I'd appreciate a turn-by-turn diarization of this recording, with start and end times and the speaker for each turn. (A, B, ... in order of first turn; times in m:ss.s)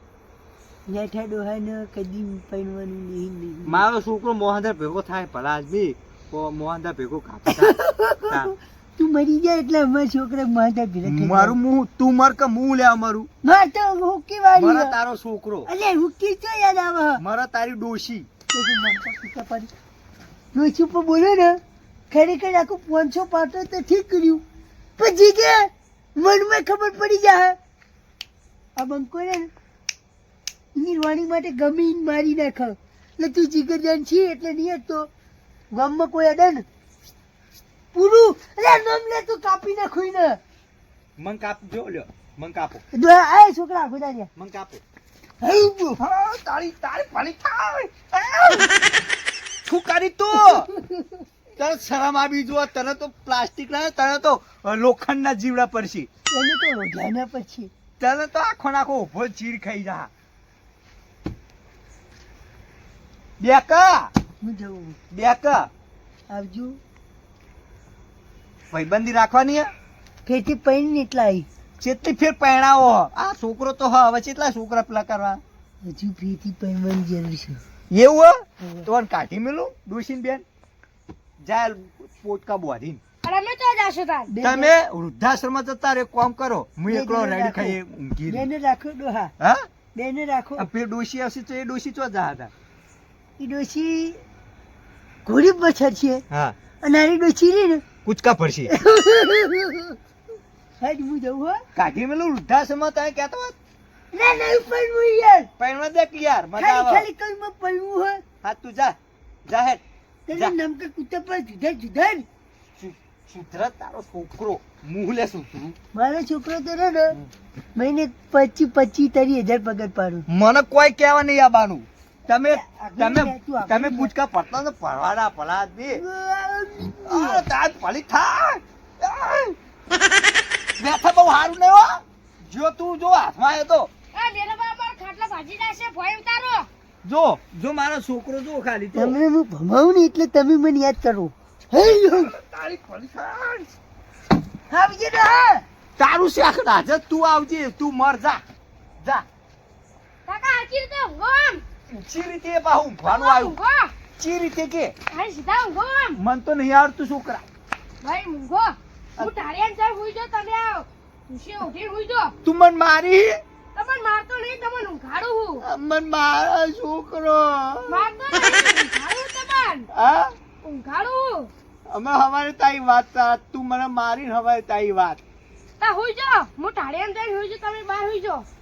0:00.9-0:03.8 A
0:03.6-0:07.8 B
0:07.5-0:11.6 A
0:11.0-0:13.3 B
0:13.4-0:14.9 A
0:14.6-0:15.7 B
0:15.6-0:17.2 A
0:17.2-0:18.3 B
0:18.5-0:19.7 A
0:20.5-0:21.6 A
0:22.1-0:24.4 A
0:25.0-0:27.6 A
0:28.8-0:29.5 A
0:30.7-0:35.1 A
0:35.7-0:36.6 A
0:37.9-0:40.4 A
0:41.2-0:42.8 B
0:42.9-0:44.3 A
0:44.4-0:44.8 B
0:45.4-0:46.0 A
0:46.0-0:48.7 B
0:49.7-0:50.7 B
0:50.7-0:51.1 A
0:51.6-0:56.1 B
0:56.3-0:57.7 A
0:58.0-1:00.1 B
1:03.4-1:04.1 B
1:04.4-1:05.0 A
1:05.1-1:05.7 B
1:06.3-1:06.8 A
1:08.7-1:09.7 B
1:10.2-1:11.5 A
1:11.8-1:15.4 B
1:15.8-1:17.6 A
1:17.9-1:20.4 B
1:21.4-1:23.0 B
1:23.2-1:24.3 C
1:24.3-1:24.7 A
1:24.4-1:28.5 B
1:26.9-1:29.3 A
1:29.4-1:29.6 B
1:29.9-1:30.7 A
1:30.6-1:32.5 B
1:33.4-1:34.2 A
1:35.2-1:36.2 A
1:36.3-1:36.6 B
1:36.8-1:37.8 A
1:38.0-1:38.7 B
1:38.7-1:40.0 A
1:40.8-1:41.6 A
1:41.7-1:43.5 B
1:44.1-1:45.5 A
1:45.6-1:47.0 B
1:46.6-1:48.2 A
1:48.4-1:49.0 B
1:49.5-1:49.8 B
1:50.3-1:52.2 A
1:52.8-1:55.7 B
1:55.9-1:57.2 A
1:57.8-2:00.2 A
2:00.3-2:06.0 B
2:02.5-2:04.1 A
2:05.9-2:07.4 A
2:07.0-2:09.6 B
2:10.8-2:13.9 B
2:14.1-2:16.7 C
2:17.0-2:19.2 B
2:18.9-2:22.3 A
2:21.8-2:23.7 B
2:24.7-2:25.6 A
2:26.0-2:28.4 B
2:29.0-2:29.2 B
2:30.3-2:31.6 C
2:31.9-2:33.6 B
2:33.0-2:33.9 C
2:34.2-2:34.9 B
2:35.1-2:36.2 C
2:36.2-2:37.4 B
2:38.0-2:42.3 C
2:42.4-2:43.4 B
2:43.7-2:45.6 C
2:45.6-2:48.0 B
2:47.9-2:49.9 C
2:49.9-2:50.3 B
2:50.6-2:51.5 C
2:51.9-2:55.2 B
2:55.8-2:58.4 C